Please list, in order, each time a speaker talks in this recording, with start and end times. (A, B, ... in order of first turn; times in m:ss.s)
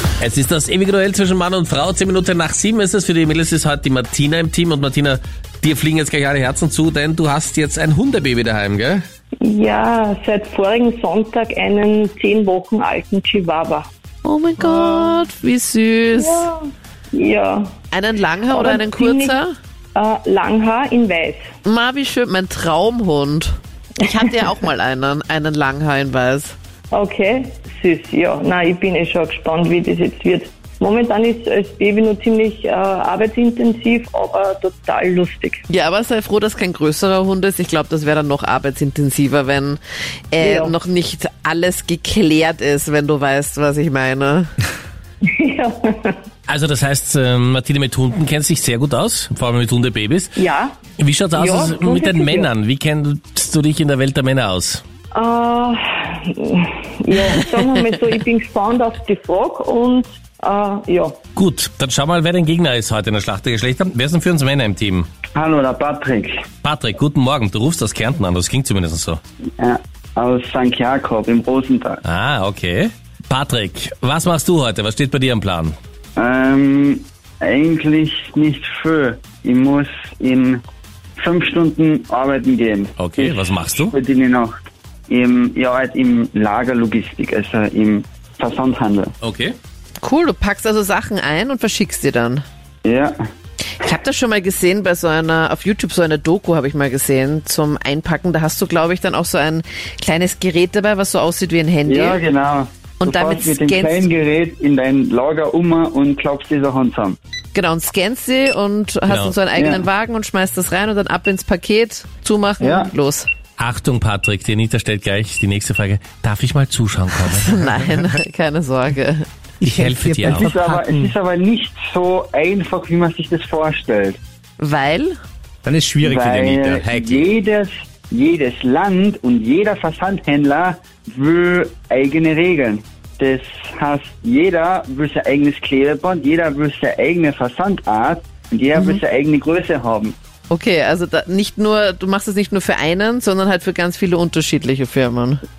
0:00.2-0:09.0 A
0:09.4-0:13.9 B
0:14.2-0:16.5 C
0:16.1-0:16.6 B
0:17.1-0:17.8 B
0:17.9-0:19.5 C
0:18.5-0:19.4 B
0:20.0-0:21.5 B
0:21.6-0:26.6 C
0:26.9-0:35.6 B
0:35.7-0:39.8 C
0:40.3-0:44.5 C
0:40.4-0:40.8 B
0:45.2-0:46.2 B
0:46.5-0:50.4 A
0:50.4-0:50.8 B
0:51.0-0:54.8 A
0:51.3-0:52.5 B
0:55.1-1:01.2 B
1:01.4-1:05.1 A
1:05.4-1:06.4 D
1:06.6-1:09.2 A
1:09.6-1:12.0 D
1:12.0-1:15.8 A
1:16.2-1:20.6 D
1:21.2-1:24.5 D
1:23.0-1:23.9 A
1:25.1-1:29.1 D
1:29.2-1:29.6 A
1:30.0-1:32.4 C
1:32.8-1:33.2 D
1:33.8-1:42.2 C
1:41.9-1:47.2 D
1:43.0-1:44.1 C
1:47.5-1:53.3 C
1:49.1-1:49.4 A
1:49.6-1:49.8 D
1:52.6-1:52.9 D
1:53.6-1:57.7 A
1:57.4-1:59.2 C
1:59.6-2:01.1 E
1:59.6-2:00.5 A
2:00.2-2:04.2 D
2:04.6-2:05.2 C
2:05.6-2:07.2 E
2:06.0-2:20.2 D
2:18.8-2:19.0 C
2:20.5-2:25.4 C